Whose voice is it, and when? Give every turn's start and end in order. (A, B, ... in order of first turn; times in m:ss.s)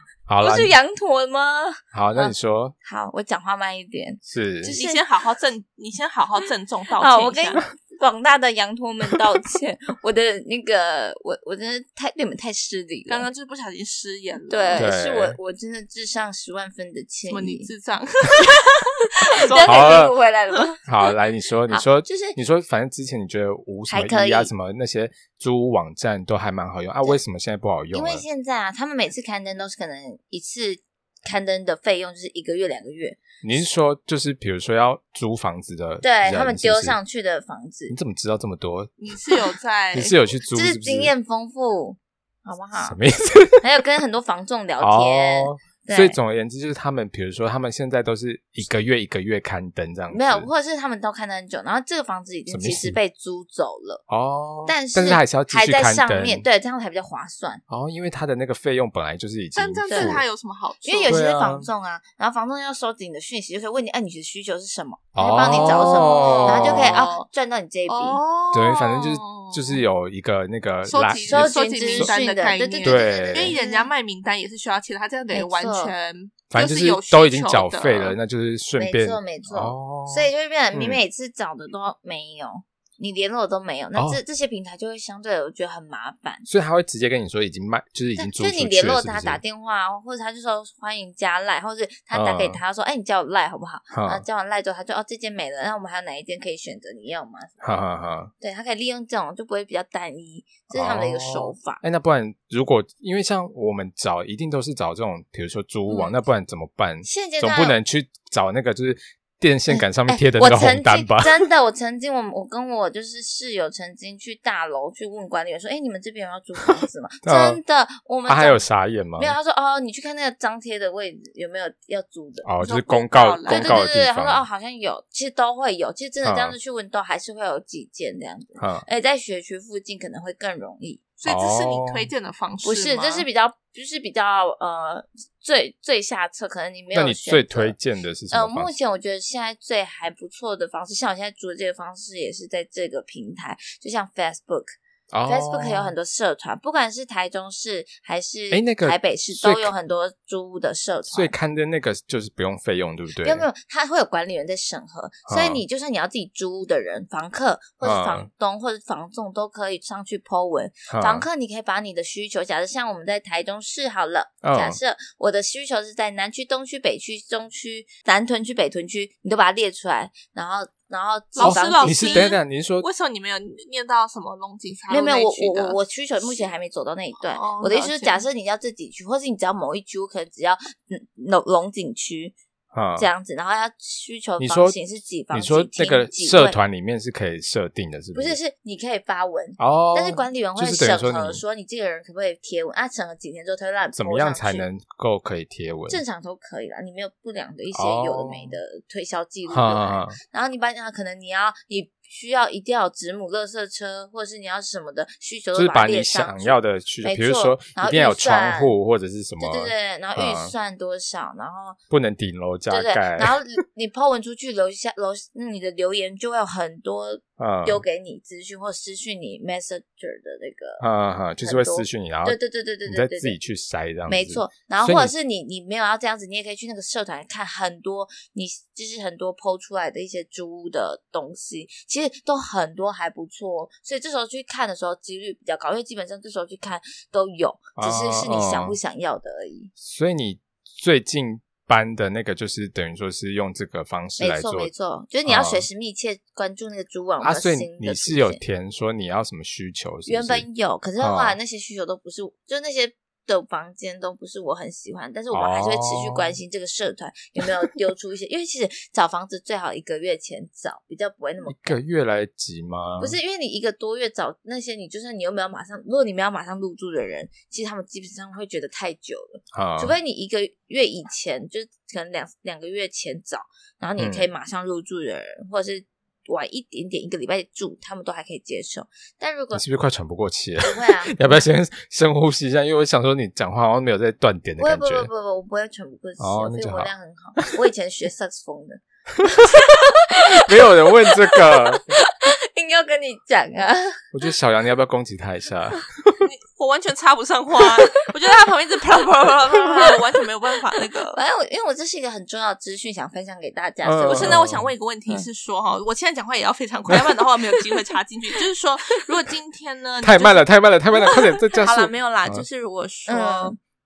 0:00.3-0:00.8 A
0:00.4-0:05.1 B
0:01.9-0:02.7 A
0:04.2-0:04.7 A
0:04.6-0:07.6 C
0:07.0-0:13.3 B
0:13.1-0:14.9 C
0:14.5-0:17.7 B
0:14.8-0:15.4 A
0:17.3-0:20.6 C
0:19.4-0:20.9 B
0:19.6-0:20.2 A
0:20.9-0:28.2 A
0:21.7-0:22.4 B
0:23.9-0:24.5 B
0:27.9-0:33.2 B
0:33.4-0:37.0 A
0:36.0-0:37.9 B
0:37.9-0:38.9 A
0:39.0-0:40.2 C
0:39.9-0:41.1 A
0:40.5-0:43.0 B
0:42.8-0:43.6 A
0:43.6-0:46.2 B
0:44.8-0:50.5 A
0:50.1-0:54.0 B
0:52.5-0:53.0 A
0:54.1-0:56.5 A
0:54.7-0:57.6 B
0:57.7-1:00.2 A
0:59.6-1:01.2 C
0:59.9-1:00.2 B
1:00.8-1:08.2 B
1:01.1-1:01.7 A
1:05.2-1:07.0 A
1:05.4-1:07.3 C
1:07.9-1:09.8 C
1:08.5-1:12.2 A
1:10.9-1:18.2 C
1:11.3-1:13.9 B
1:12.8-1:13.6 A
1:15.3-1:15.9 B
1:16.5-1:21.0 A
1:18.8-1:26.5 B
1:26.5-1:29.4 A
1:28.2-1:37.5 B
1:32.1-1:32.6 A
1:33.9-1:34.2 A
1:37.6-1:38.3 A
1:38.4-1:41.8 B
1:40.7-1:51.4 A
1:45.9-1:46.1 B
1:47.0-1:47.8 B
1:49.7-1:58.6 B
1:57.2-1:57.6 A
1:58.3-1:59.4 A
1:59.2-2:02.5 B
2:02.4-2:04.4 A
2:02.6-2:03.8 C
2:03.5-2:11.1 B
2:06.2-2:06.6 A
2:08.6-2:08.9 A
2:11.2-2:13.3 C
2:11.3-2:12.1 A
2:12.6-2:17.8 B
2:16.9-2:18.7 A
2:18.3-2:24.8 B
2:25.1-2:25.9 A
2:25.3-2:31.3 B
2:28.5-2:29.7 A
2:31.1-2:33.5 A
2:33.2-2:52.3 B
2:35.3-2:35.6 A
2:37.8-2:38.3 A
2:40.9-2:41.3 A
2:44.4-2:44.8 A
2:51.4-2:56.5 C
2:51.4-2:52.9 A
2:54.9-3:02.4 B
2:57.2-2:58.2 C
3:02.7-3:03.1 A
3:03.0-3:06.6 B
3:04.4-3:04.8 A
3:05.3-3:08.4 A
3:08.2-3:14.6 B
3:09.6-3:11.4 A
3:14.0-3:16.0 A
3:15.9-3:28.7 B
3:17.7-3:18.6 A
3:19.5-3:20.2 A
3:25.5-3:30.5 A
3:29.4-3:31.8 B
3:31.9-3:33.4 A
3:32.7-3:40.8 B
3:37.4-3:37.8 A
3:40.8-3:45.1 A
3:41.4-3:43.4 B
3:44.1-3:59.7 B
3:57.8-3:58.8 A
3:59.8-4:04.7 A
4:04.2-4:08.4 B
4:05.3-4:05.7 A
4:07.2-4:10.4 A
4:10.1-4:21.8 B
4:11.0-4:11.4 A
4:15.3-4:16.4 A
4:21.5-4:23.2 A
4:23.0-4:39.6 B
4:29.5-4:30.0 A
4:34.0-4:34.3 A
4:39.5-4:45.1 A
4:40.6-4:41.4 B
4:44.6-4:48.8 B
4:46.2-4:46.9 A
4:49.2-4:49.6 A
4:49.4-4:54.0 B
4:50.3-4:51.9 A
4:54.1-4:56.2 A
4:56.2-5:01.2 C
4:59.5-5:00.0 B
5:01.1-5:04.4 B
5:03.8-5:04.7 A
5:04.1-5:13.6 C
5:10.0-5:12.4 A
5:13.1-5:13.6 B